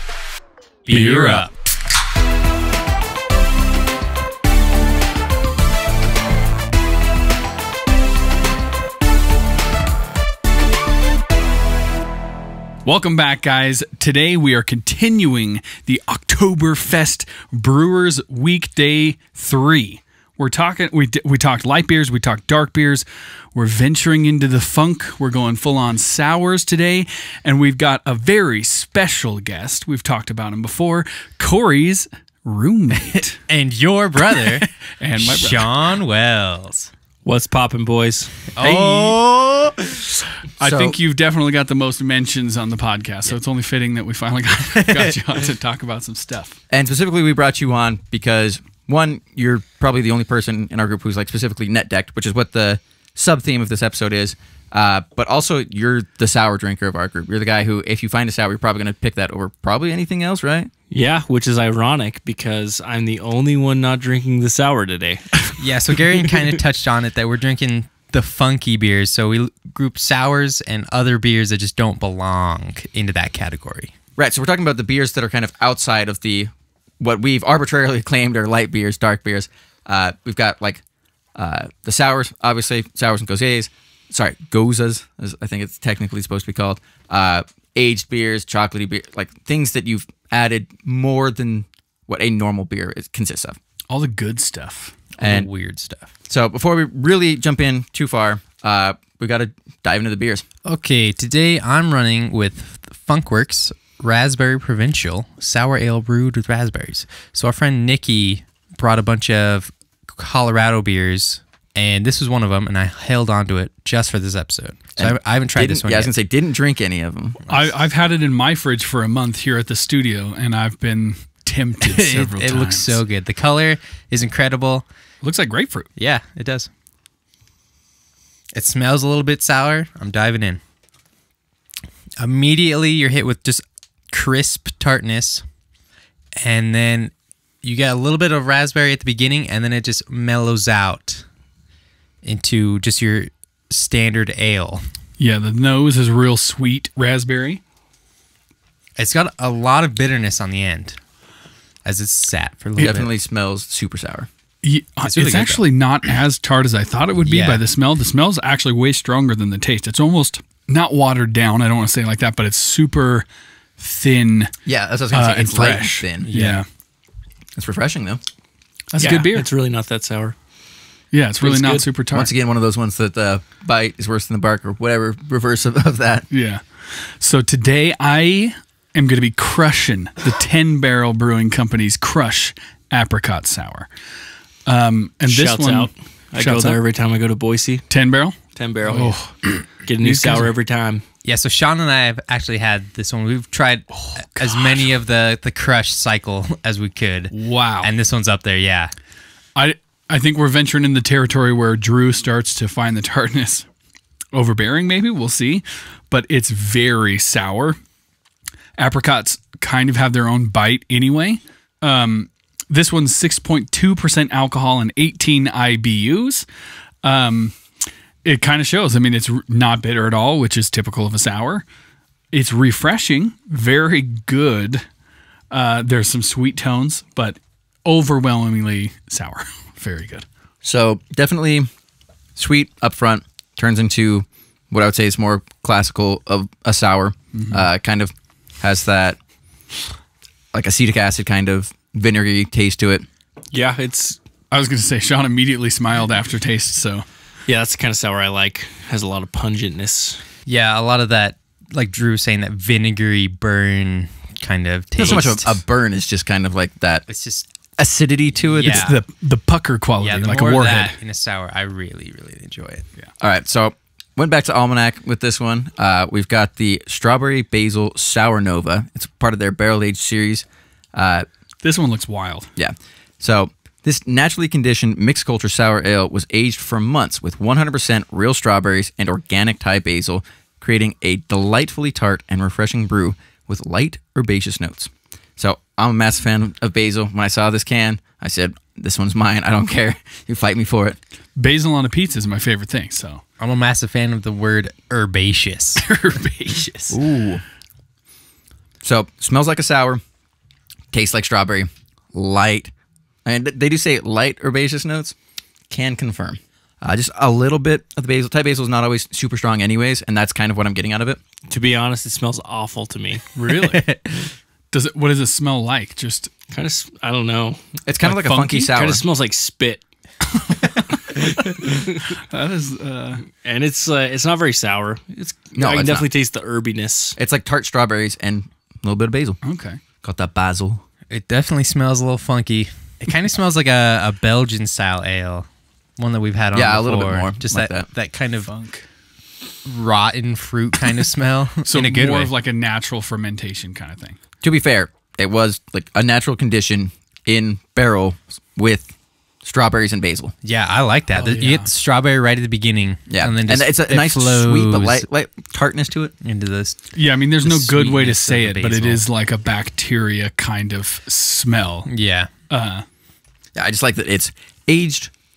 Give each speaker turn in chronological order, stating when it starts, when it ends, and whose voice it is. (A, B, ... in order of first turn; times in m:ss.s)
0:00.9-0:01.5 A
0:00.9-0:01.5 B
0:12.8-0:33.4 B
0:33.5-0:36.9 A
0:35.0-0:35.7 B
0:37.2-0:38.4 C
0:38.5-0:39.2 A
0:38.6-0:39.0 B
0:38.6-0:40.0 D
0:40.6-0:41.0 D
0:40.6-0:46.6 B
0:46.7-1:00.7 D
1:00.9-1:05.6 C
1:05.6-1:13.9 A
1:14.2-1:20.8 D
1:21.4-1:33.6 D
1:33.9-1:35.1 B
1:35.2-1:36.1 A
1:35.2-1:35.5 D
1:36.3-1:40.4 D
1:40.6-1:56.1 A
1:55.0-1:57.5 D
1:57.5-2:03.0 B
2:01.8-2:04.9 A
2:05.2-2:05.9 B
2:06.0-2:06.7 A
2:08.5-2:10.6 A
2:12.2-2:15.4 A
2:16.4-2:21.2 A
2:22.2-2:24.8 A
2:25.2-2:27.6 B
2:29.0-2:31.0 A
2:31.8-2:33.1 A
2:32.8-2:34.3 D
2:34.6-2:43.2 B
2:35.0-2:35.6 A
2:37.2-2:37.6 A
2:43.8-2:44.5 B
2:44.7-2:46.3 D
2:45.1-2:46.7 B
2:46.2-2:46.6 A
2:47.5-2:48.2 D
2:48.9-2:49.4 B
2:49.0-2:50.3 C
2:51.1-2:52.3 B
2:51.4-2:51.8 C
2:52.1-2:56.3 D
2:56.3-3:03.9 B
3:04.7-3:06.8 B
3:05.2-3:07.8 C
3:07.9-3:10.5 B
3:08.5-3:09.2 C
3:09.8-3:11.0 C
3:11.2-3:18.9 A
3:13.9-3:14.8 B
3:17.3-3:17.9 B
3:19.6-3:23.7 B
3:24.3-3:27.8 B
3:28.8-3:36.4 B
3:37.0-3:37.6 B
3:38.2-3:41.7 B
3:42.3-3:44.8 B
3:45.5-3:50.2 B
3:50.6-3:51.7 D
3:52.4-3:59.2 D
3:57.3-3:57.6 B
4:00.5-4:03.0 D
4:03.5-4:04.2 C
4:04.5-4:07.0 B
4:07.5-4:10.2 C
4:10.4-4:15.6 A
4:15.0-4:17.1 D
4:17.1-4:17.4 A
4:17.8-4:18.9 D
4:18.5-4:19.0 A
4:18.6-4:21.0 B
4:20.0-4:22.9 A
4:23.2-4:31.2 D
4:31.6-4:32.5 B
4:32.6-4:51.0 D
4:51.4-4:53.2 B
4:53.4-4:55.8 A
4:55.8-4:57.0 B
4:56.9-4:57.4 D
4:58.8-5:00.0 D
5:00.9-5:02.7 D
5:03.2-5:05.2 D
5:05.7-5:11.2 D
5:11.5-5:13.2 C
5:13.3-5:13.8 B
5:13.5-5:14.4 A
5:14.7-5:16.3 B
5:16.5-5:19.8 C
5:17.9-5:19.0 D
5:21.1-5:21.4 B
5:21.6-5:22.1 C
5:22.2-5:23.2 B
5:23.4-5:27.2 C
5:25.6-5:26.1 D
5:27.2-5:29.4 D
5:29.4-5:29.8 B
5:30.0-5:30.8 D
5:31.1-5:38.5 A
5:36.5-5:37.9 D
5:38.4-5:38.9 B
5:39.6-5:42.3 A
5:41.6-5:44.2 B
5:44.4-5:48.9 D
5:49.4-5:50.3 D
5:50.4-5:55.1 A
5:51.2-5:51.7 B
5:53.1-5:56.1 D
5:56.2-5:59.0 A
5:56.9-6:01.9 B
6:01.9-6:02.3 A
6:02.5-6:02.8 B
6:03.6-6:05.1 D